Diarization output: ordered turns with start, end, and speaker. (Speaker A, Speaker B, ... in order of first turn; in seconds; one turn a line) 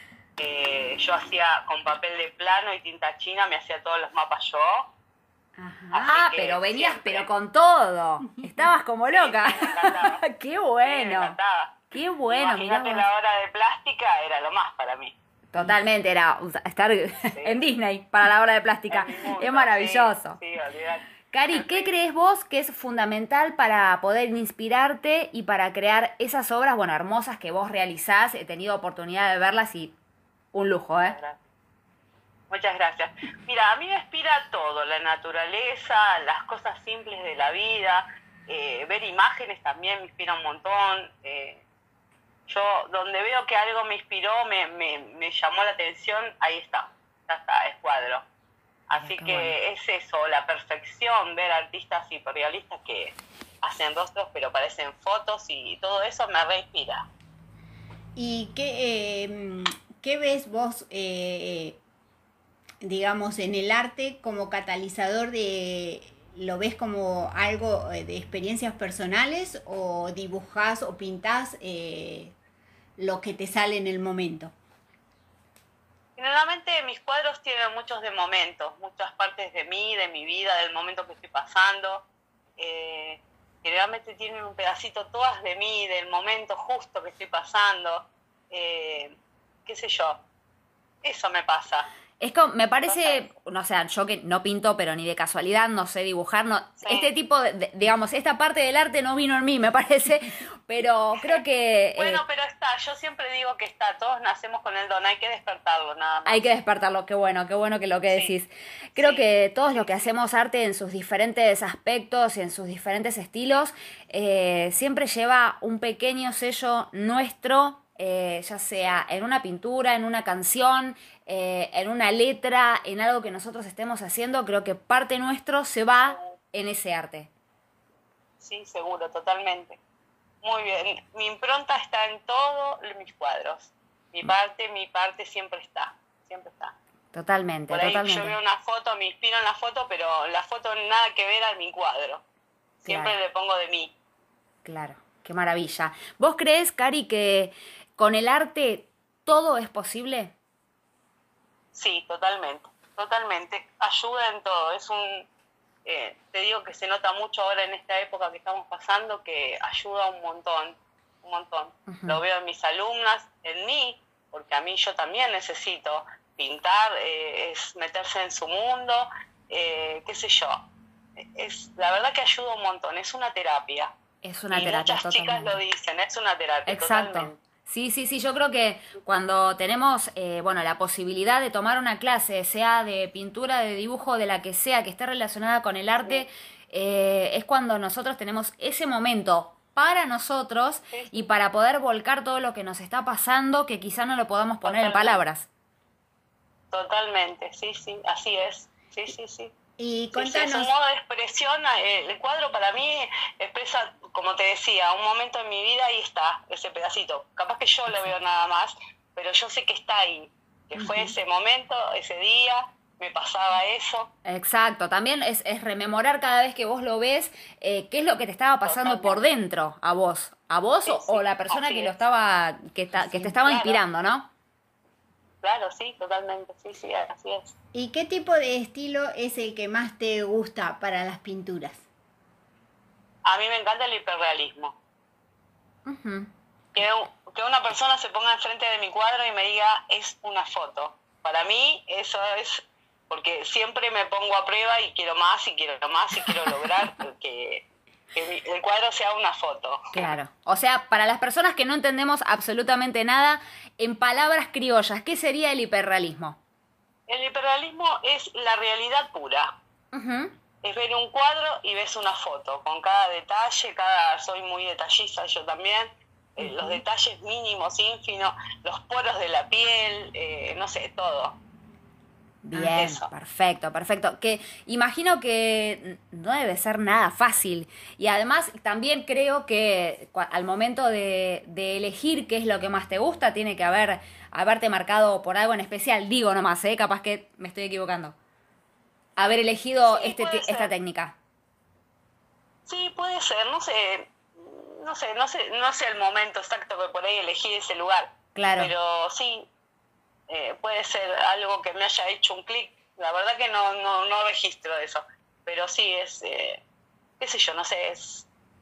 Speaker A: 0.4-4.9
Speaker B: 5.6-11.3
Speaker A: 5.9-7.3
Speaker A: 9.1-10.2
Speaker A: 10.8-11.8
Speaker B: 11.9-13.1
Speaker A: 12.3-15.2
Speaker B: 15.5-20.4
Speaker A: 17.3-17.6
Speaker A: 18.9-21.9
Speaker B: 21.3-29.9
Speaker B: 30.5-31.2
Speaker A: 31.0-31.4
Speaker A: 32.5-41.6
Speaker A: 42.5-48.2
Speaker A: 48.9-57.1
Speaker B: 49.0-49.5
Speaker C: 58.2-61.8
Speaker C: 62.8-72.3
Speaker C: 73.0-74.5
Speaker A: 76.2-82.0
Speaker A: 82.6-90.2
Speaker A: 91.0-91.9
Speaker B: 92.2-102.2
Speaker A: 92.8-93.3
Speaker A: 96.8-97.1
Speaker A: 101.2-101.4
Speaker A: 102.0-106.4
Speaker B: 106.3-127.3
Speaker A: 108.1-108.4
Speaker A: 109.0-110.2
Speaker A: 128.4-129.8
Speaker A: 130.4-136.8
Speaker B: 137.1-138.4
Speaker A: 137.7-142.2
Speaker A: 142.8-143.9
Speaker B: 142.8-143.2
Speaker B: 144.7-150.3
Speaker A: 151.7-155.3
Speaker A: 155.8-170.6
Speaker B: 161.9-162.2
Speaker A: 171.2-173.9
Speaker B: 174.2-175.6
Speaker A: 174.5-177.4
Speaker B: 176.7-195.5
Speaker A: 194.6-195.2
Speaker A: 196.7-199.5
Speaker C: 199.8-200.7
Speaker A: 200.1-214.1
Speaker B: 210.8-211.1
Speaker B: 214.2-224.3
Speaker A: 218.7-219.2
Speaker A: 220.8-222.0
Speaker A: 223.0-223.8
Speaker A: 225.4-227.6
Speaker C: 227.7-231.8
Speaker A: 233.2-234.8
Speaker B: 235.9-236.3
Speaker A: 236.8-250.1
Speaker B: 249.9-256.4
Speaker A: 257.1-259.6
Speaker B: 259.9-260.4
Speaker A: 260.6-271.4
Speaker B: 272.4-288.1
Speaker A: 272.6-273.1
Speaker B: 289.2-291.2
Speaker A: 289.9-290.7
Speaker A: 292.7-299.5
Speaker B: 298.4-298.7
Speaker A: 300.3-306.6
Speaker A: 307.2-308.3